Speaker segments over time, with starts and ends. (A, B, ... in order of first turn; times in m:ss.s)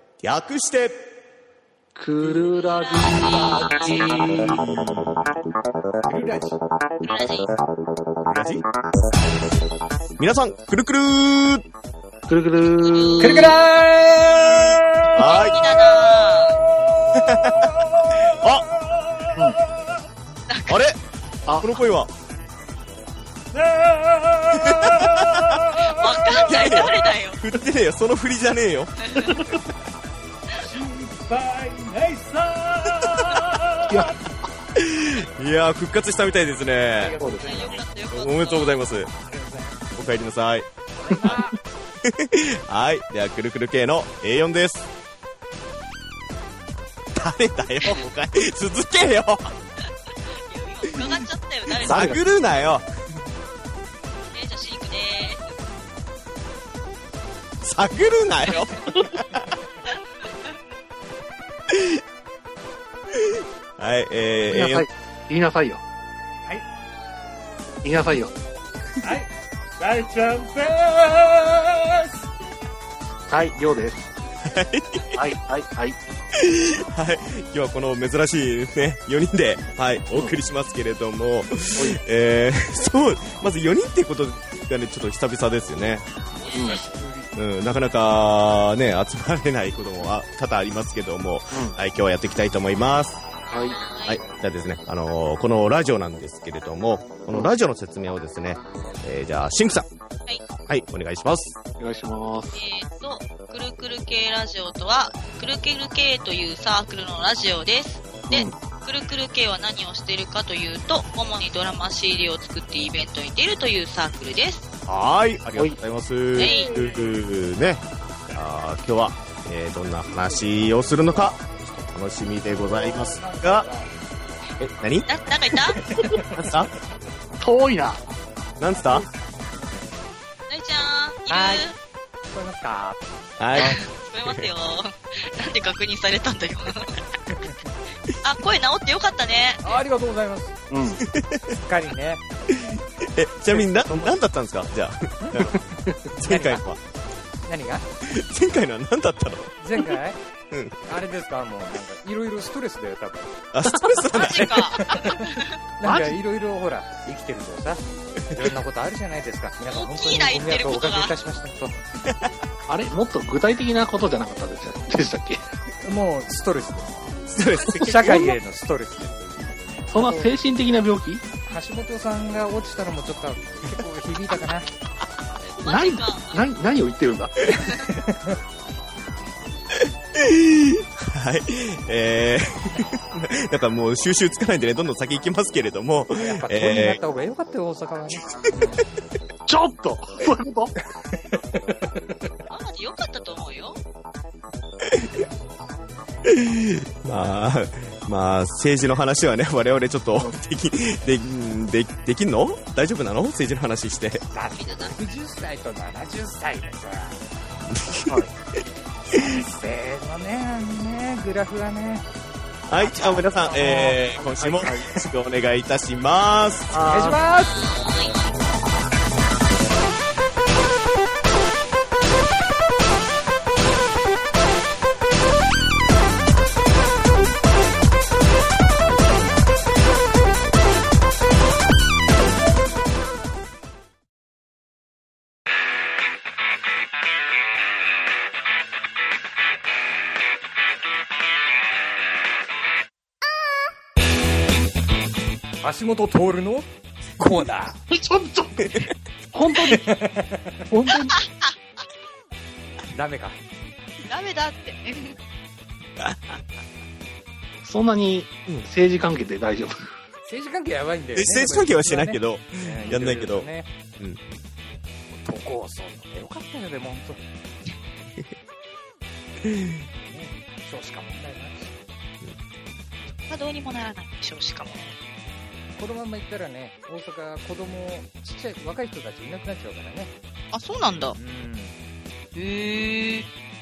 0:00.2-0:01.0 A
0:01.9-0:04.6 B
0:02.5-0:04.0 C
0:03.2-0:04.6 D
0:06.1-0:06.6 D
0:07.0-0:07.5 C
0:08.3-0:08.6 A
0:10.2-0:11.6 A
0:12.3-0:13.6 B
0:12.6-0:13.6 C
0:13.2-0:15.2 D
0:15.1-0:15.8 A
0:15.2-0:16.6 C
0:17.0-0:18.1 D
0:17.1-0:18.7 A
0:20.5-0:20.8 C
0:20.7-0:21.0 A
0:21.6-0:22.1 A
0:23.6-0:26.3 D
0:24.6-0:25.6 A
0:25.8-0:27.4 C
0:26.3-0:28.9 A
0:29.0-0:29.3 C
0:30.6-0:33.9 D
0:33.9-0:34.1 B
0:34.8-0:37.2 A
0:37.0-0:37.8 D
0:37.1-0:37.7 B
0:37.4-0:38.8 C
0:38.1-0:39.1 A
0:39.2-0:39.7 D
0:39.9-0:40.7 A
0:40.9-0:41.6 D
0:41.1-0:41.4 B
0:42.0-0:44.9 A
0:47.1-0:49.5 A
0:50.3-0:52.2 C
0:50.9-0:52.8 A
0:51.8-0:52.2 B
0:54.3-0:55.6 C
0:57.6-0:59.4 A
1:01.7-1:02.0 A
1:03.1-1:04.8 A
1:04.5-1:05.8 B
1:07.8-1:08.4 B
1:09.0-1:12.1 D
1:13.3-1:14.1 B
1:14.4-1:15.2 A
1:15.1-1:16.0 B
1:16.3-1:26.1 A
1:26.4-1:27.3 D
1:26.5-1:26.8 C
1:26.6-1:26.8 B
1:27.3-1:33.2 A
1:31.5-1:31.8 B
1:33.5-1:33.8 B
1:33.5-1:34.2 C
1:34.0-1:39.9 A
1:40.7-1:41.6 A
1:41.8-1:42.6 B
1:42.5-1:54.7 C
1:48.3-1:48.5 B
1:54.9-2:03.7 A
1:56.3-1:56.9 C
1:56.4-1:57.2 D
2:02.5-2:03.9 D
2:04.6-2:05.1 A
2:05.1-2:06.0 C
2:05.9-2:06.4 D
2:06.3-2:06.7 A
2:07.4-2:08.0 B
2:08.6-2:09.0 A
2:10.5-2:11.7 C
2:11.3-2:11.7 D
2:12.3-2:13.0 D
2:13.4-2:14.5 A
2:13.6-2:17.0 C
2:17.3-2:17.6 D
2:18.2-2:19.8 C
2:19.6-2:20.6 D
2:20.7-2:21.0 B
2:21.0-2:21.6 A
2:21.5-2:22.2 D
2:22.5-2:26.8 A
2:23.5-2:24.1 D
2:25.2-2:26.6 D
2:27.4-2:27.9 D
2:28.0-2:29.6 A
2:29.6-2:30.2 D
2:30.5-2:30.8 A
2:30.8-2:33.4 D
2:33.5-2:34.7 A
2:34.1-2:35.5 C
2:34.4-2:41.8 D
2:35.8-2:36.2 B
2:39.7-2:41.1 C
2:42.7-2:45.4 B
2:45.8-2:47.0 D
2:47.3-2:48.3 A
2:47.7-2:50.4 D
2:49.9-2:51.2 B
2:51.4-2:54.7 D
2:55.6-2:56.4 C
2:55.6-2:57.3 B
2:57.5-2:58.4 D
2:59.8-3:07.0 A
3:06.1-3:08.8 D
3:09.5-3:10.7 B
3:11.1-3:11.6 D
3:12.5-3:13.8 C
3:14.8-3:15.1 A
3:16.2-3:24.2 A
3:24.3-3:27.2 D
3:24.5-3:24.9 C
3:27.7-3:28.2 A
3:29.1-3:29.4 A
3:29.1-3:32.0 D
3:32.7-3:36.8 A
3:32.8-3:34.7 D
3:34.4-3:34.9 B
3:36.7-3:37.2 B
3:36.8-3:37.7 D
3:37.4-3:38.3 C
4:05.6-4:07.8 D
4:07.9-4:08.7 B
4:09.3-4:09.9 B
4:09.6-4:10.6 D
4:10.7-4:11.2 B
4:11.2-4:11.5 C
4:12.9-4:13.4 D
4:14.1-4:15.2 C
4:16.0-4:16.4 A
4:17.6-4:19.8 B
4:20.2-4:23.7 D
4:21.1-4:23.5 A
4:25.2-4:27.2 D
4:29.4-4:29.8 A
4:30.0-4:31.7 D
4:33.3-4:34.8 C
4:34.6-4:34.9 D
4:35.8-4:40.1 D
4:40.5-4:41.2 C
4:41.2-4:41.8 D
4:42.3-4:43.2 C